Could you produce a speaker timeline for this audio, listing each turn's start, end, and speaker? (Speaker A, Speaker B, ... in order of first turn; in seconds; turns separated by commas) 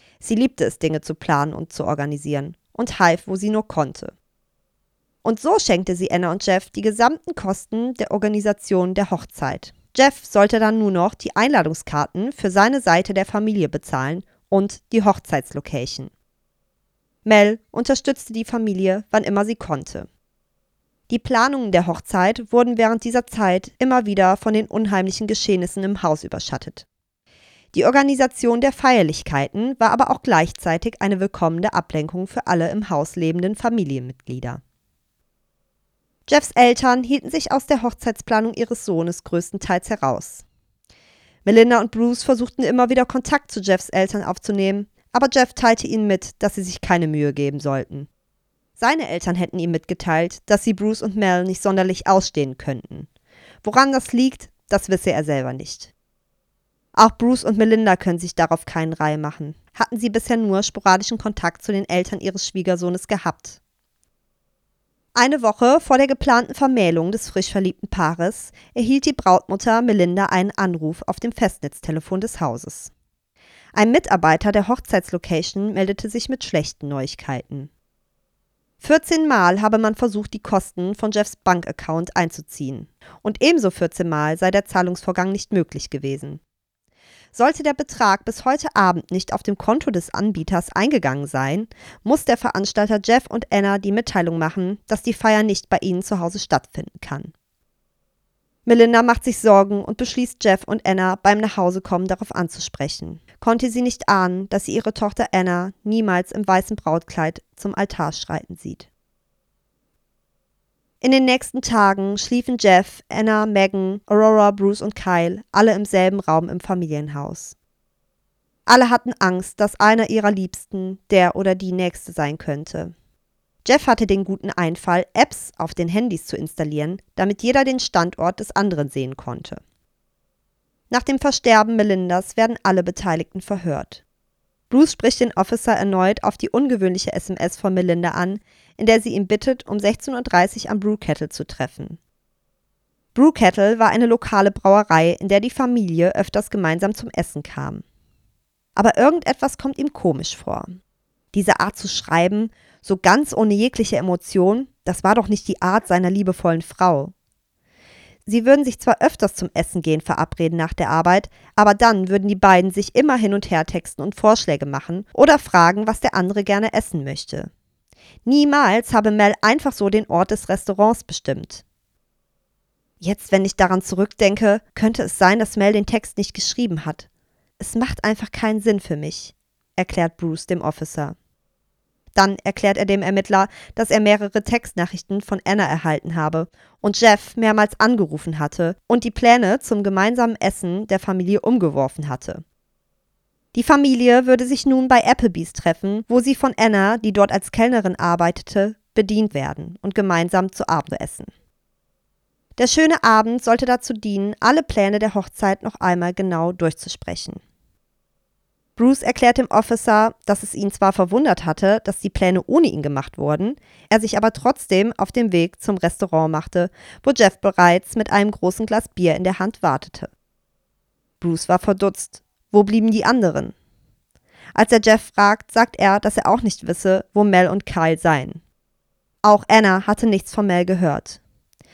Speaker A: 0.2-4.1, Speaker A: 5.2-16.1, Speaker A: 17.2-20.1, Speaker A: 21.1-26.9, Speaker A: 27.7-34.6, Speaker A: 36.3-40.4, Speaker A: 41.5-48.1, Speaker A: 48.8-53.1, Speaker A: 53.6-55.9, Speaker A: 57.0-63.6, Speaker A: 65.2-72.9, Speaker A: 73.7-77.7, Speaker A: 78.8-86.4, Speaker A: 87.3-97.3, Speaker A: 98.7-108.9, Speaker A: 111.0-117.5, Speaker A: 118.7-122.9, Speaker A: 123.7-129.6, Speaker A: 130.9-134.0, Speaker A: 134.7-142.0, Speaker A: 143.2-147.8, Speaker A: 148.8-150.7, Speaker A: 151.3-157.1, Speaker A: 158.3-167.5, Speaker A: 168.3-171.6, Speaker A: 173.0-177.1, Speaker A: 177.6-181.2, Speaker A: 182.2-192.4, Speaker A: 193.5-201.3, Speaker A: 202.6-207.4, Speaker A: 208.8-220.1, Speaker A: 221.2-223.5, Speaker A: 224.6-228.4, Speaker A: 229.2-231.2